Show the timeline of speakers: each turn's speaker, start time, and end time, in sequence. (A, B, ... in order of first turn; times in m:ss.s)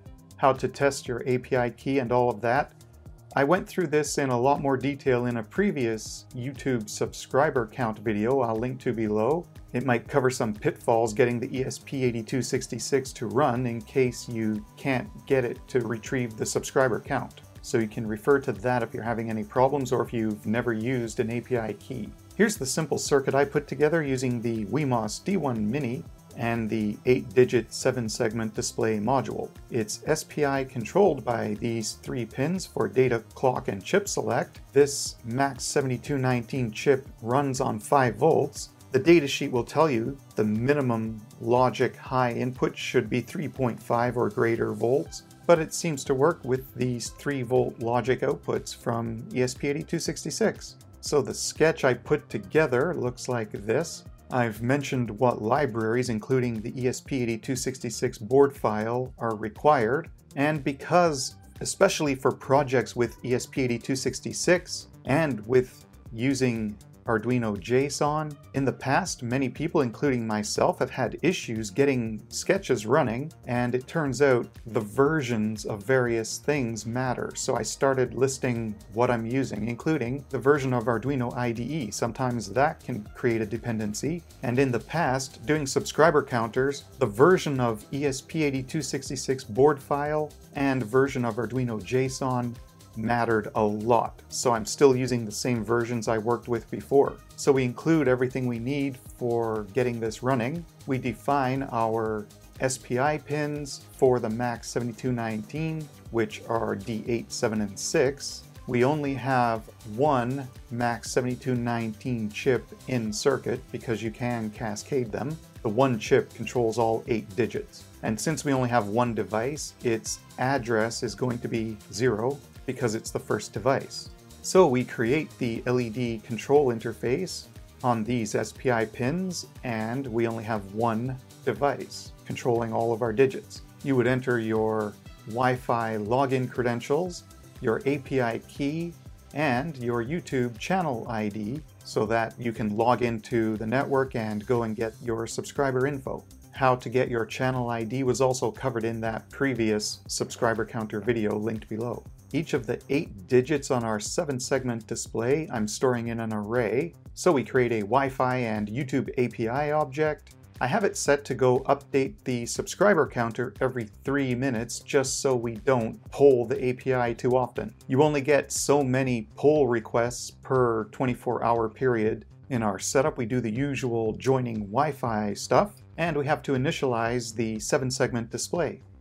0:00.4-0:02.8 A
0:03.4-2:58.8 A